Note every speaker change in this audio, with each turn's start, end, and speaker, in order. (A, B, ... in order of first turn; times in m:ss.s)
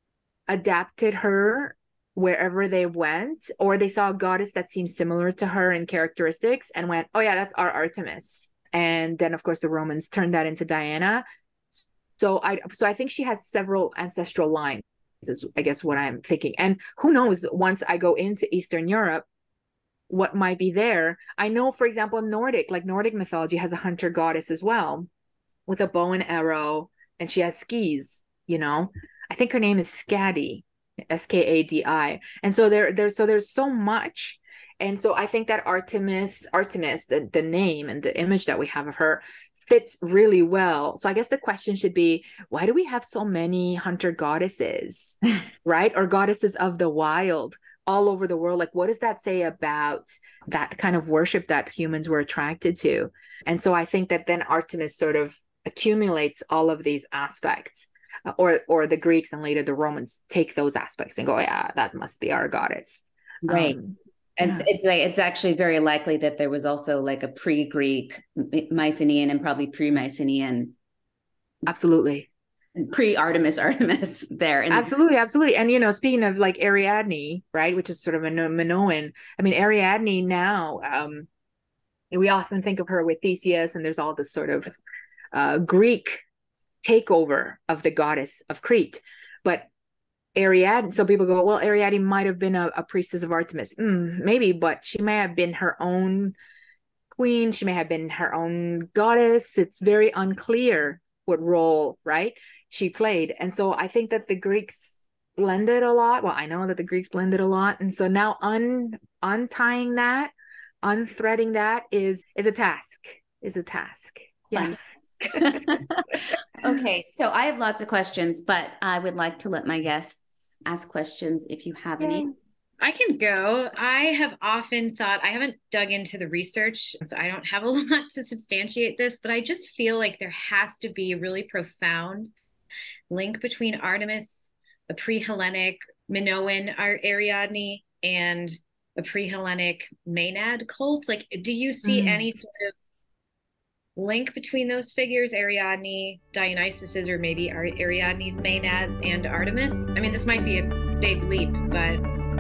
0:00.5-0:19.3 A
0:20.1-0:25.1 A
0:25.7-1:04.7 A
1:03.5-1:03.8 B
1:04.4-1:10.7 B
1:11.7-1:12.3 A
1:12.8-1:14.9 B
1:14.7-1:21.3 A
1:22.1-1:24.7 A
1:25.3-1:26.2 A
1:26.8-1:29.7 A
1:30.4-1:36.4 A
1:37.1-1:54.8 A
1:54.6-2:02.3 B
2:02.8-2:12.3 C
2:13.1-2:22.7 C
2:21.8-2:22.3 A
2:24.0-2:32.0 C